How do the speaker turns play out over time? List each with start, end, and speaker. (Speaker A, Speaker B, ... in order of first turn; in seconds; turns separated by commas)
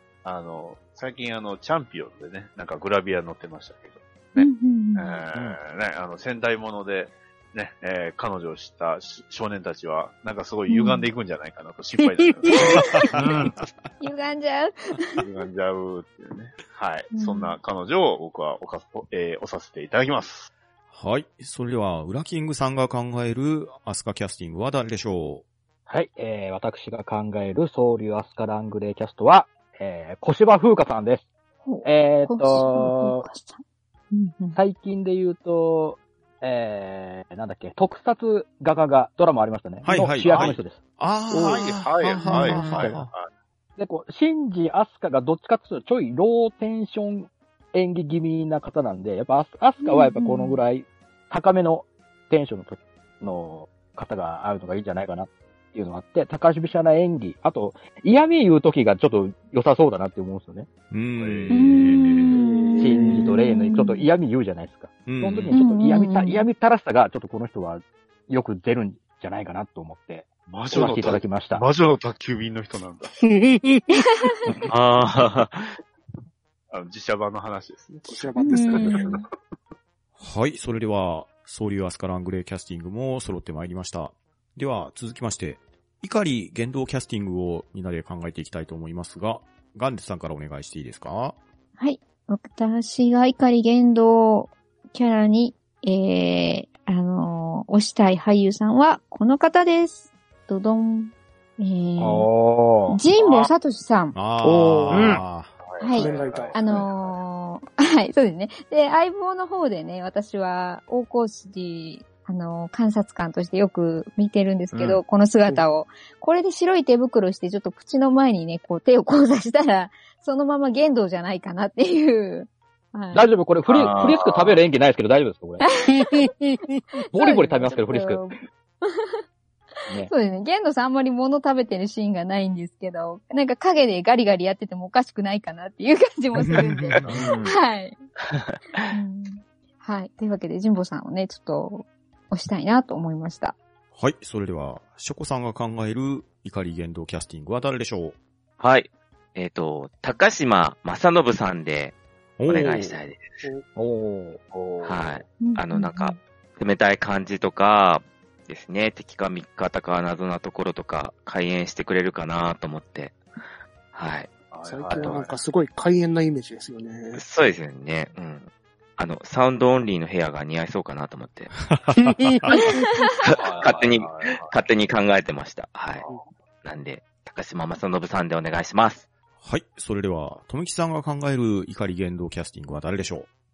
Speaker A: 0.2-13.5, Speaker B: 4.4-5.2, Speaker B: 10.7-11.1, Speaker C: 12.9-13.5, Speaker B: 14.0-15.2, Speaker A: 15.2-20.5, Speaker B: 17.1-17.6, Speaker C: 20.9-25.4, Speaker D: 25.9-31.3, Speaker B: 31.6-34.6, Speaker D: 31.8-33.2, Speaker D: 34.5-40.8, Speaker C: 39.8-43.1, Speaker A: 40.2-40.6, Speaker A: 41.3-43.3, Speaker B: 42.2-42.6, Speaker D: 43.8-60.7, Speaker B: 49.8-50.6, Speaker C: 60.9-62.3, Speaker A: 61.2-61.6, Speaker B: 61.5-64.0, Speaker D: 62.3-71.6, Speaker C: 65.0-65.5, Speaker B: 65.5-66.4, Speaker A: 70.5-73.1, Speaker E: 73.2-74.0, Speaker F: 74.7-75.8, Speaker A: 76.7-79.1, Speaker E: 77.9-79.2, Speaker B: 78.5-79.2, Speaker C: 80.2-91.3, Speaker B: 91.8-102.3, Speaker D: 102.0-103.0, Speaker B: 102.9-104.2, Speaker A: 103.2-103.5, Speaker C: 104.1-105.5, Speaker E: 104.4-105.2, Speaker A: 104.9-107.1, Speaker B: 105.8-123.3, Speaker E: 105.9-106.9, Speaker F: 114.7-115.0, Speaker D: 123.1-125.7, Speaker F: 123.7-124.6, Speaker B: 125.6-126.3, Speaker E: 126.0-126.8, Speaker B: 127.0-129.2, Speaker D: 127.1-128.2, Speaker B: 130.0-138.0, Speaker C: 136.4-137.2, Speaker A: 137.0-137.3, Speaker F: 137.2-137.4, Speaker B: 138.9-143.6, Speaker C: 143.9-148.2, Speaker F: 148.6-153.4, Speaker C: 152.4-152.9, Speaker D: 153.8-154.4, Speaker A: 154.5-155.2, Speaker F: 154.8-163.2, Speaker B: 155.4-156.2, Speaker F: 163.9-164.3, Speaker A: 164.5-165.4, Speaker E: 164.6-167.2, Speaker F: 164.9-165.2, Speaker F: 167.1-171.6, Speaker C: 171.7-172.6, Speaker E: 172.1-172.6, Speaker B: 172.5-173.1, Speaker F: 173.2-176.0, Speaker A: 173.3-174.6, Speaker F: 176.6-179.1, Speaker C: 179.4-183.3